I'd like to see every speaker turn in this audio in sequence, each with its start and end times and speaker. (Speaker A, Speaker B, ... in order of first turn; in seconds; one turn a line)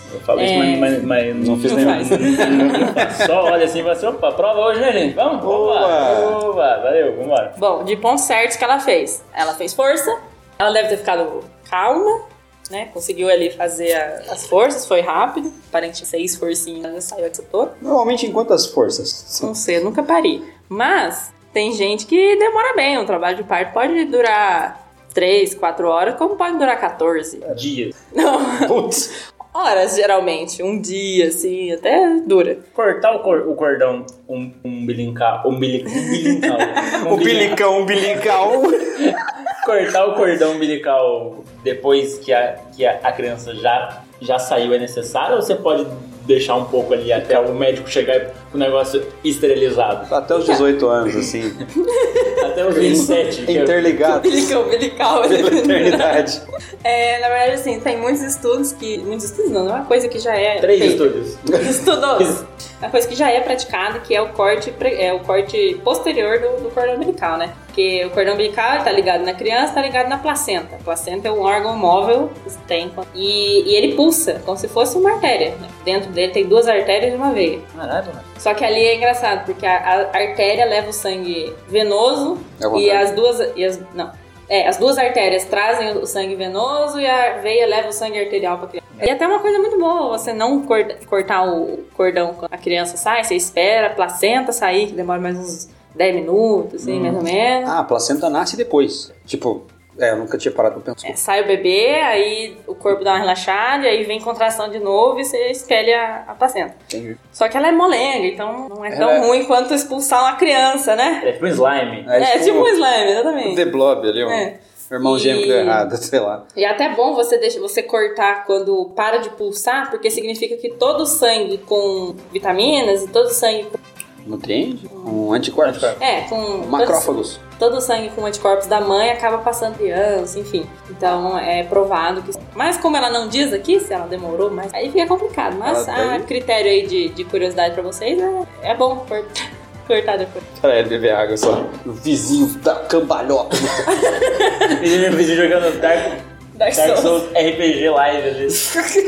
Speaker A: 0.1-7.6
Speaker B: 0.3-1.0
Speaker C: 1.3-3.1
Speaker B: 1.7-2.9
Speaker C: 5.4-6.4
Speaker B: 7.6-17.8
Speaker C: 17.8-19.5
Speaker B: 19.4-27.5
Speaker A: 27.5-27.9
Speaker B: 28.1-29.0
Speaker C: 28.6-29.1
Speaker B: 29.5-32.6
Speaker A: 32.8-37.6
Speaker C: 37.0-39.2
Speaker A: 39.0-50.1
Speaker C: 47.2-47.5
Speaker C: 50.1-51.6
Speaker A: 51.0-51.4
Speaker B: 51.8-52.5
Speaker A: 52.4-54.0
Speaker C: 52.7-54.6
Speaker B: 54.0-56.3
Speaker C: 55.2-56.4
Speaker B: 56.8-77.7
Speaker A: 60.6-61.6
Speaker C: 61.5-61.8
Speaker A: 77.7-78.3
Speaker B: 78.4-97.8
Speaker C: 82.6-83.1
Speaker A: 96.8-97.2
Speaker C: 97.7-101.2
Speaker B: 101.0-106.8
Speaker C: 106.9-107.2
Speaker B: 107.3-111.3
Speaker C: 108.9-109.3
Speaker A: 111.2-112.1
Speaker C: 112.0-112.8
Speaker B: 112.2-113.7
Speaker C: 113.4-116.5
Speaker B: 114.2-115.9
Speaker B: 116.5-123.8
Speaker C: 124.2-126.0
Speaker B: 124.9-125.2
Speaker A: 125.6-126.0
Speaker B: 126.0-140.4
Speaker C: 126.6-127.4
Speaker C: 135.7-136.3
Speaker C: 140.6-144.1
Speaker B: 143.8-144.8
Speaker A: 144.6-148.8
Speaker B: 146.6-147.3